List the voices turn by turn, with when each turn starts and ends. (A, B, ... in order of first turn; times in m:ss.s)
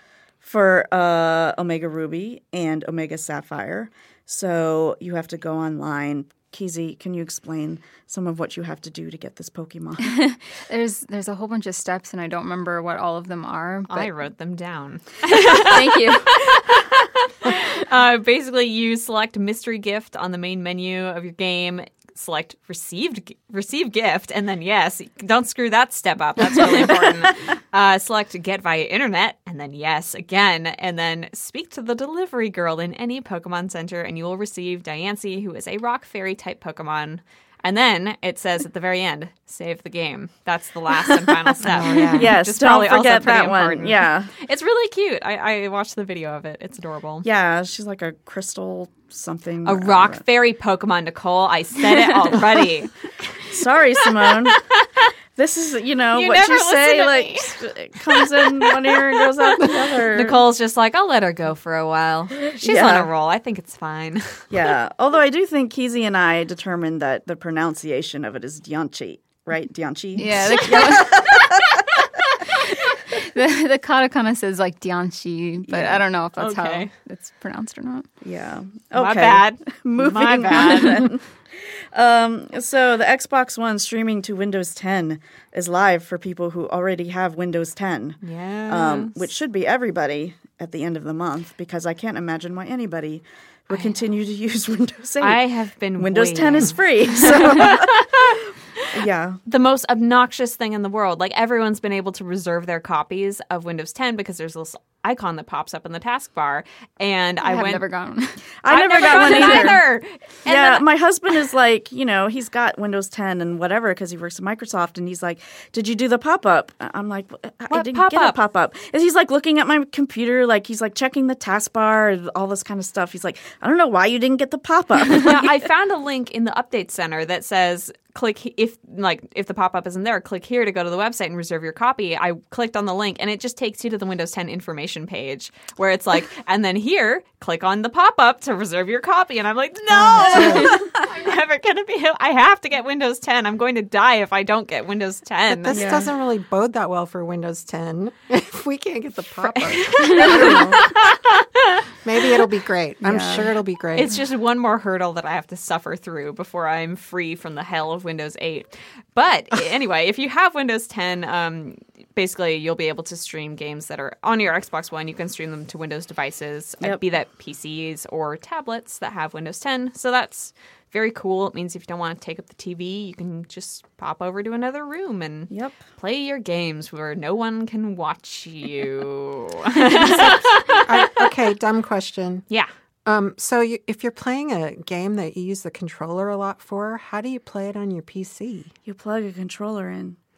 0:00.4-0:10.3 A
0:10.1-0:14.1 B
0:13.9-0:47.2 C
0:15.5-0:16.4 B
0:41.7-0:42.3 D
0:41.7-0:44.3 A
0:47.2-0:50.2 A
0:49.6-0:55.1 C
0:52.0-0:52.3 A
0:53.5-0:54.6 A
0:55.4-1:00.4 A
0:56.1-1:04.5 C
1:02.6-1:03.1 A
1:04.5-1:12.0 A
1:10.2-1:11.5 B
1:13.1-1:18.1 B
1:15.7-1:16.0 A
1:16.4-1:16.9 C
1:18.2-1:35.4 A
1:18.9-1:21.1 C
1:28.2-1:29.2 C
1:33.7-1:34.0 C
1:35.2-1:38.2 C
1:36.0-1:39.4 A
1:39.5-1:47.8 C
1:47.4-1:48.4 B
1:48.6-1:49.8 A
1:48.7-1:50.8 C
1:49.0-1:49.8 B
1:50.5-2:05.6 A
1:57.7-1:58.4 C
2:05.2-2:25.9 C
2:19.9-2:20.8 D
2:20.2-2:20.8 A
2:25.5-2:30.9 D
2:25.7-2:26.1 A
2:29.4-2:31.8 C
2:30.2-2:30.8 A
2:32.0-2:34.1 D
2:33.0-2:33.5 A
2:33.9-3:00.8 C
2:55.5-2:55.8 A
3:00.0-3:02.4 D
3:03.1-3:08.7 D
3:08.9-3:10.2 A